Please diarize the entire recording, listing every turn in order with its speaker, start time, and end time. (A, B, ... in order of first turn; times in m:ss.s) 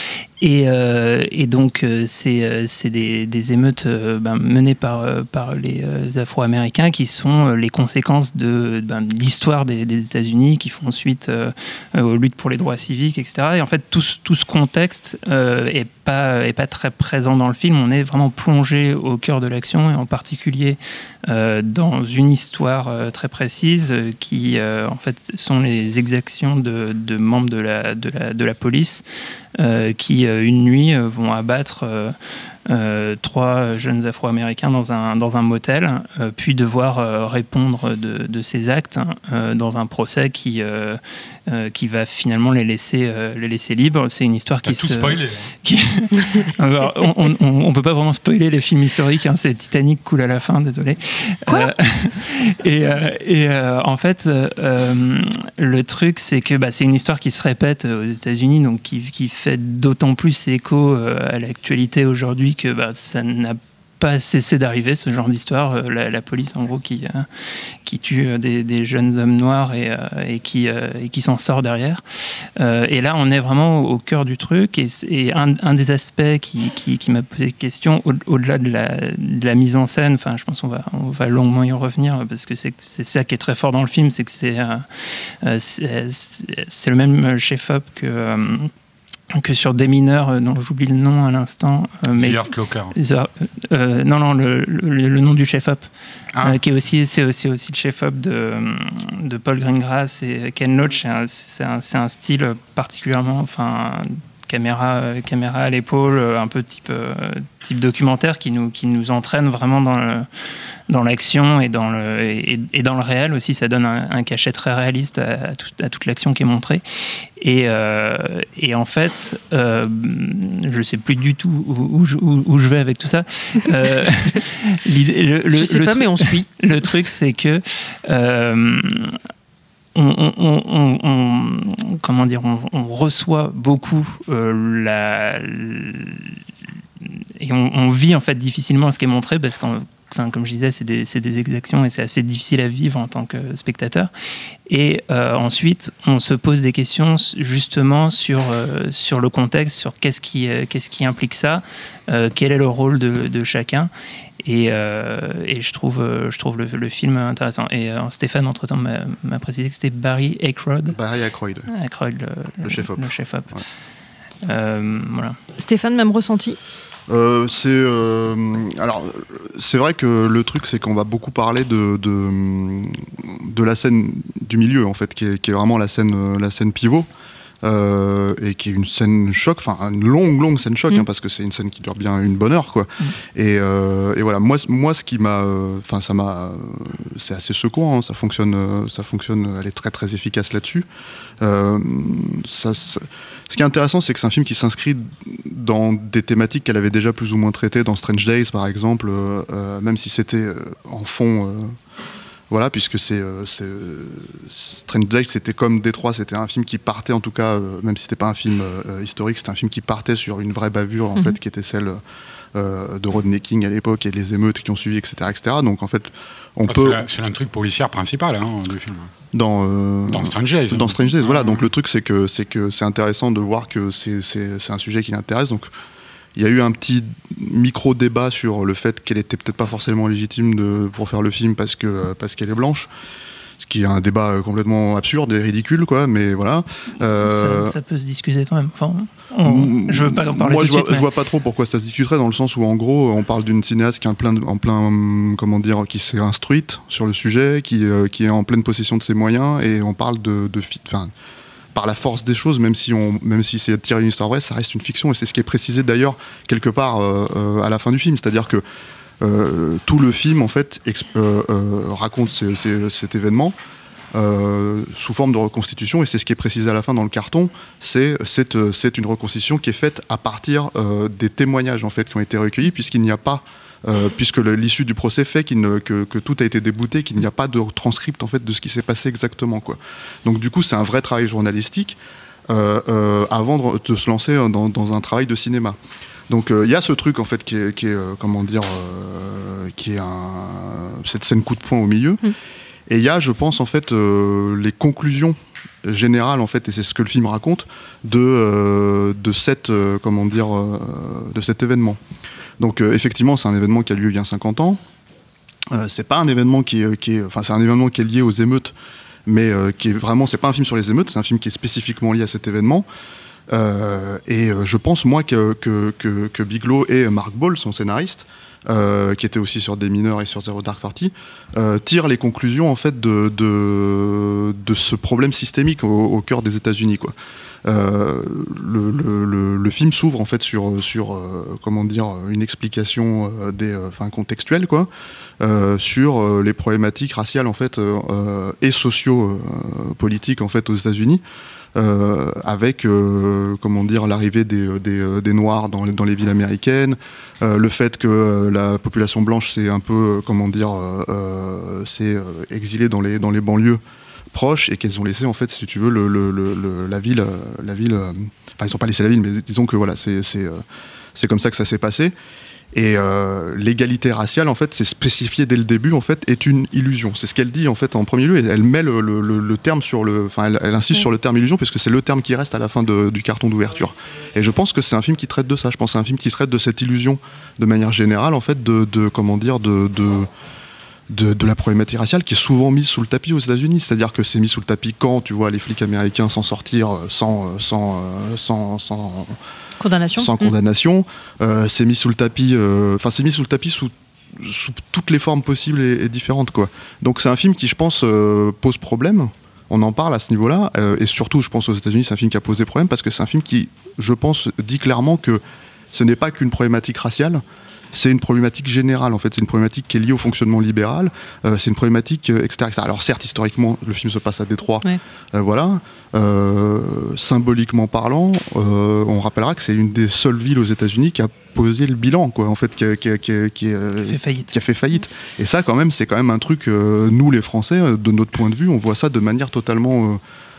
0:00.4-0:29.0 A
0:29.6-0:32.2 A
0:32.7-1:07.3 A
0:44.7-0:45.5 B
1:07.8-1:12.0 A
1:12.6-1:28.7 A
1:29.3-1:35.9 A
1:32.2-1:32.9 B
1:36.3-1:36.6 B
1:36.4-1:50.3 A
1:50.9-1:56.8 A
1:57.4-2:09.2 A
2:05.5-2:06.5 C
2:10.0-2:16.4 A
2:17.4-2:24.1 A
2:24.7-2:41.0 A
2:40.9-2:41.7 D
2:41.7-2:43.6 A
2:42.6-2:43.6 D
2:44.4-2:45.4 A
2:45.6-2:46.6 C
2:47.1-2:57.1 D
2:57.6-3:10.9 D
3:11.4-3:21.8 D
3:22.5-3:32.0 D
3:32.5-3:37.0 D
3:36.7-3:39.1 B
3:39.3-3:45.7 D
3:40.1-3:41.7 B
3:46.3-3:52.9 D
3:53.6-3:57.8 D
3:57.2-4:01.1 A
3:59.4-4:11.1 D
4:11.7-4:18.6 D
4:19.2-4:23.6 D
4:24.1-4:45.8 D
4:46.3-4:52.3 D
4:52.9-5:02.0 D
5:02.6-5:04.8 D
5:05.7-5:08.8 D
5:09.2-5:12.9 D
5:13.5-5:41.2 D
5:41.8-5:53.8 D
5:54.3-6:00.6 D
6:01.1-6:02.1 D
6:02.7-6:20.3 D
6:21.1-6:29.4 D
6:29.8-6:30.5 C
6:30.2-6:45.4 D
6:45.9-7:10.2 D
7:04.0-7:04.5 A